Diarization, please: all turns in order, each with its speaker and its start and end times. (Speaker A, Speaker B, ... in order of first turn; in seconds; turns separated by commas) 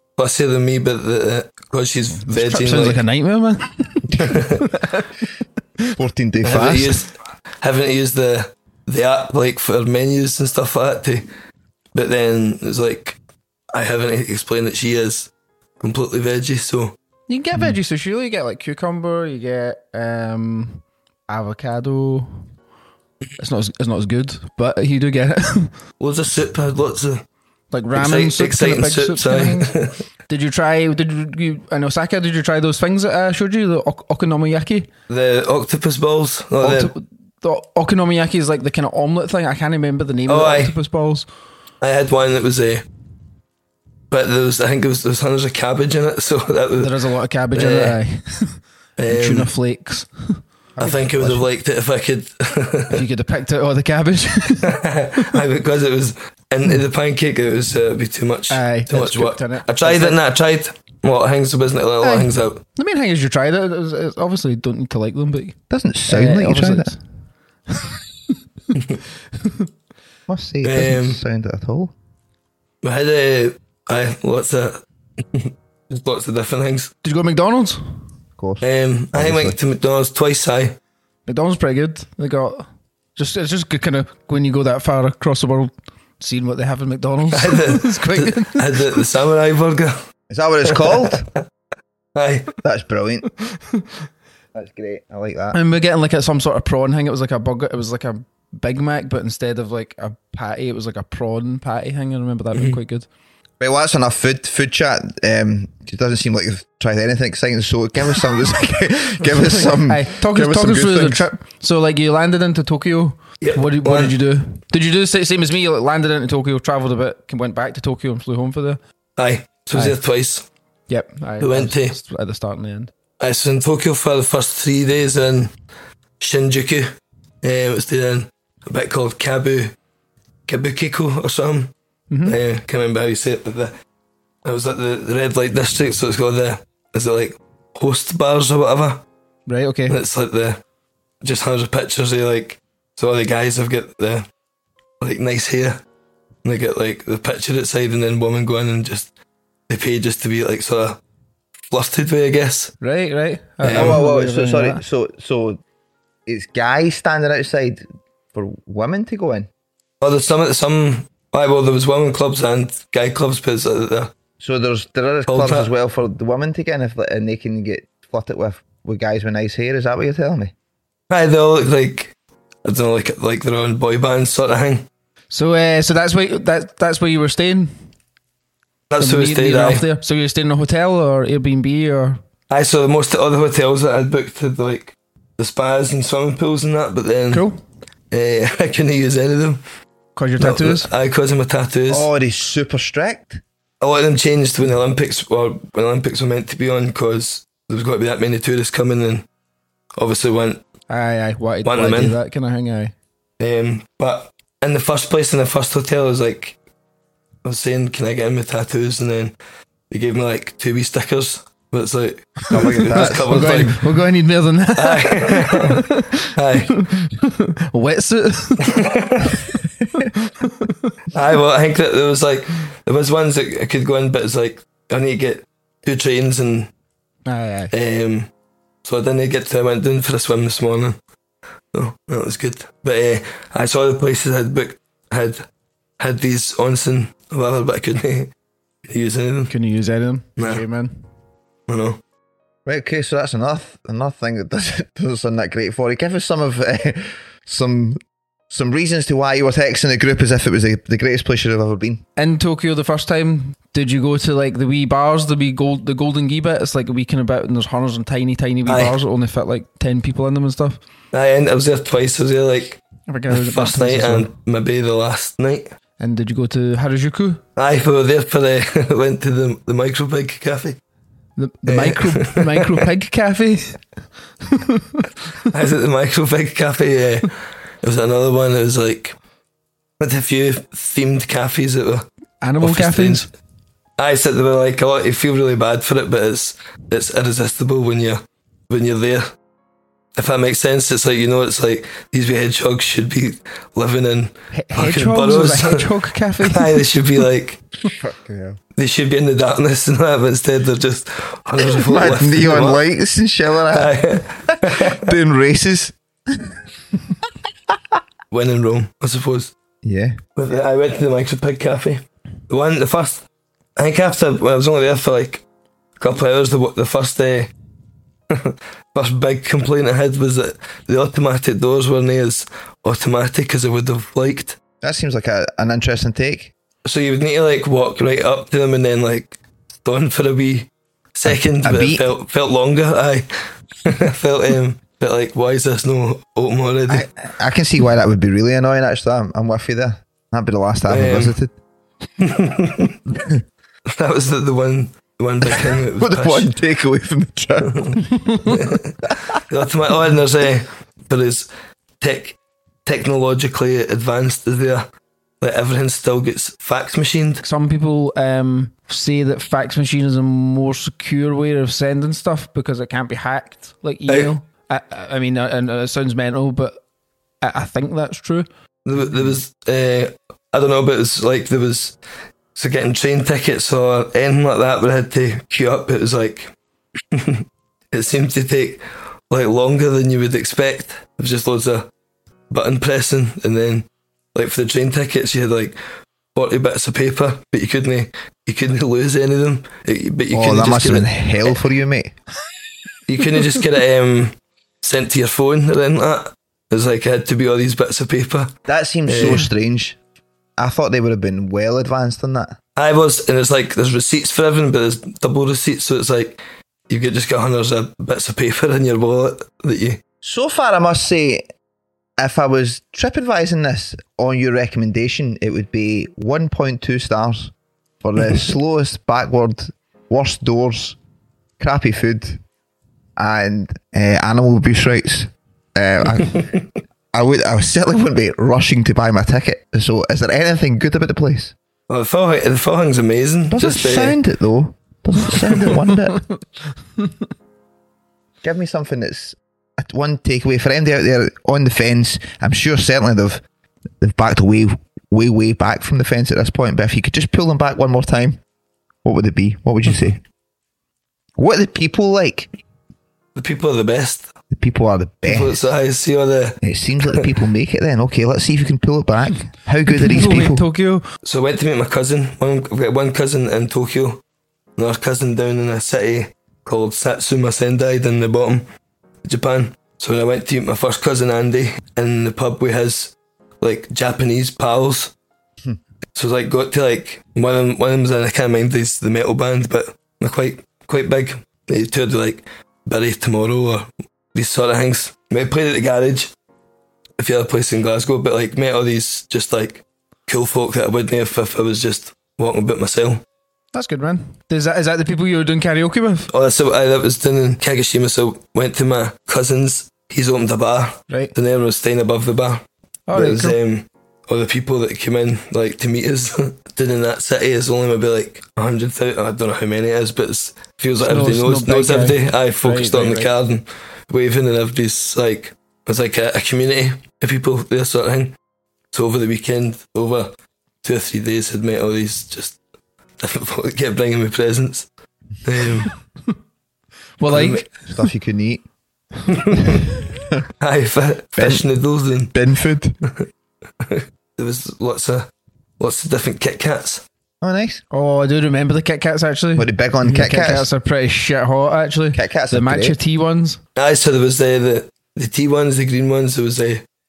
Speaker A: 0.2-3.0, Speaker B: 2.2-5.0, Speaker A: 4.3-4.6, Speaker C: 6.0-7.0, Speaker A: 6.4-11.3, Speaker A: 11.9-13.2, Speaker A: 13.7-15.3, Speaker A: 15.8-16.9, Speaker B: 17.3-22.5, Speaker B: 23.4-25.7, Speaker A: 26.0-27.2, Speaker B: 27.7-29.7, Speaker A: 27.9-30.0, Speaker B: 30.3-34.9, Speaker A: 35.1-36.9, Speaker B: 36.6-41.3, Speaker A: 40.3-40.7, Speaker A: 41.8-42.8, Speaker A: 44.1-47.0, Speaker B: 46.8-50.4, Speaker A: 47.5-48.0, Speaker A: 49.0-49.5, Speaker C: 50.8-51.5, Speaker A: 50.8-53.0, Speaker B: 52.9-54.8, Speaker A: 54.6-62.6, Speaker B: 58.5-60.2, Speaker B: 62.0-65.6, Speaker C: 65.7-67.0, Speaker B: 66.1-67.0, Speaker B: 67.7-68.0, Speaker C: 70.3-71.9, Speaker A: 70.6-71.2, Speaker A: 72.8-76.9, Speaker B: 77.0-78.0, Speaker C: 78.4-79.6, Speaker A: 78.6-80.8, Speaker B: 81.3-88.7, Speaker A: 87.3-90.0, Speaker C: 90.3-91.3, Speaker A: 90.7-91.1, Speaker A: 92.2-92.5, Speaker C: 92.6-93.3, Speaker C: 94.5-95.6, Speaker B: 95.5-103.1, Speaker C: 103.6-111.2, Speaker B: 109.4-118.8, Speaker A: 113.4-114.2, Speaker A: 119.2-120.5, Speaker B: 119.7-120.0, Speaker B: 120.9-122.9, Speaker A: 121.4-122.0, Speaker A: 123.2-125.5, Speaker A: 126.2-129.7, Speaker A: 130.5-131.7, Speaker B: 132.1-132.4, Speaker A: 132.3-133.7, Speaker A: 134.4-139.0, Speaker B: 139.5-140.0, Speaker A: 139.9-140.6, Speaker A: 141.2-144.3, Speaker A: 145.0-145.8, Speaker A: 146.4-149.1, Speaker A: 149.7-151.0, Speaker A: 151.7-152.7, Speaker B: 152.8-154.8, Speaker A: 153.6-154.0, Speaker C: 153.7-155.6, Speaker C: 156.3-159.5, Speaker A: 160.0-164.1, Speaker C: 164.4-170.5, Speaker A: 165.3-165.7, Speaker A: 171.1-172.1, Speaker A: 172.7-174.9, Speaker B: 175.3-177.7, Speaker A: 178.9-179.8, Speaker B: 179.0-182.2, Speaker A: 182.5-187.5, Speaker B: 187.3-187.6, Speaker A: 188.1-189.6, Speaker B: 190.2-190.9, Speaker A: 190.4-192.1, Speaker C: 191.9-193.4, Speaker A: 193.8-199.2, Speaker A: 200.0-200.6, Speaker B: 200.9-202.9, Speaker A: 201.6-202.2, Speaker A: 203.4-206.6, Speaker A: 207.4-209.3, Speaker A: 209.9-213.8, Speaker C: 212.5-213.7, Speaker B: 212.9-218.8, Speaker A: 214.8-215.8, Speaker A: 216.3-216.8, Speaker A: 218.6-219.4, Speaker B: 220.0-220.9, Speaker A: 221.1-226.7, Speaker B: 227.3-227.7, Speaker A: 227.7-228.3, Speaker A: 228.8-231.0, Speaker A: 231.7-235.4, Speaker A: 236.0-238.3, Speaker A: 238.9-239.5, Speaker B: 239.5-240.9, Speaker A: 241.7-242.0, Speaker C: 242.7-252.0, Speaker B: 252.2-260.8, Speaker A: 258.7-259.0, Speaker A: 261.1-265.7, Speaker B: 263.1-264.3, Speaker B: 266.0-267.4, Speaker A: 267.6-270.8, Speaker B: 271.4-273.8, Speaker A: 271.7-272.8, Speaker B: 274.5-275.1, Speaker A: 275.5-279.2, Speaker A: 280.0-282.1, Speaker B: 282.4-283.3, Speaker A: 282.6-283.3, Speaker A: 284.0-289.3, Speaker A: 290.2-295.9, Speaker B: 294.5-296.7, Speaker A: 296.4-297.6, Speaker C: 298.0-298.6, Speaker A: 298.8-302.8, Speaker C: 301.7-306.6, Speaker A: 303.7-305.1, Speaker A: 308.3-309.5, Speaker C: 309.8-310.2, Speaker A: 310.4-313.2, Speaker A: 313.8-315.4, Speaker A: 316.0-317.5, Speaker A: 318.3-324.6, Speaker C: 324.8-326.5, Speaker A: 326.9-333.3, Speaker C: 331.2-332.0, Speaker A: 333.9-337.1, Speaker C: 336.9-341.5, Speaker A: 340.9-341.4, Speaker A: 342.2-343.0, Speaker A: 343.9-346.5, Speaker C: 345.4-348.0, Speaker A: 347.7-351.5, Speaker A: 352.0-354.9, Speaker A: 355.4-357.4, Speaker B: 357.4-366.8, Speaker B: 367.4-368.5, Speaker A: 368.9-372.0, Speaker A: 372.6-376.5, Speaker A: 377.1-381.9, Speaker A: 382.5-385.8, Speaker A: 386.4-391.5, Speaker C: 390.3-392.1, Speaker A: 393.1-398.5, Speaker C: 398.7-400.0, Speaker A: 399.1-399.5, Speaker C: 400.6-402.6, Speaker A: 402.8-410.0, Speaker C: 410.2-411.5, Speaker C: 412.2-421.0, Speaker C: 421.6-422.4, Speaker C: 423.2-426.5, Speaker A: 426.4-426.6, Speaker C: 427.1-431.5, Speaker A: 431.9-434.2, Speaker C: 433.5-436.3, Speaker C: 438.4-443.4, Speaker C: 444.0-448.4, Speaker C: 449.0-450.2, Speaker C: 451.4-452.5, Speaker A: 453.4-454.3, Speaker C: 454.5-455.7, Speaker A: 455.2-456.6, Speaker C: 456.6-460.6, Speaker B: 459.9-461.0, Speaker A: 461.2-464.2, Speaker A: 464.8-468.6, Speaker A: 469.2-475.1, Speaker A: 476.2-486.3, Speaker A: 487.2-493.2, Speaker B: 493.7-496.3, Speaker A: 496.3-518.3, Speaker B: 503.1-503.6, Speaker B: 511.0-513.3, Speaker A: 518.9-522.6, Speaker A: 523.2-524.9, Speaker A: 525.4-525.9, Speaker B: 527.2-527.7, Speaker A: 527.3-527.7, Speaker C: 527.9-528.6, Speaker A: 529.3-529.8, Speaker A: 530.6-532.3, Speaker C: 531.4-531.7, Speaker C: 532.3-533.0, Speaker A: 533.8-535.3, Speaker A: 535.8-537.0, Speaker C: 537.4-537.8, Speaker B: 537.9-543.6, Speaker C: 539.6-540.7, Speaker C: 542.1-543.0, Speaker A: 543.8-546.8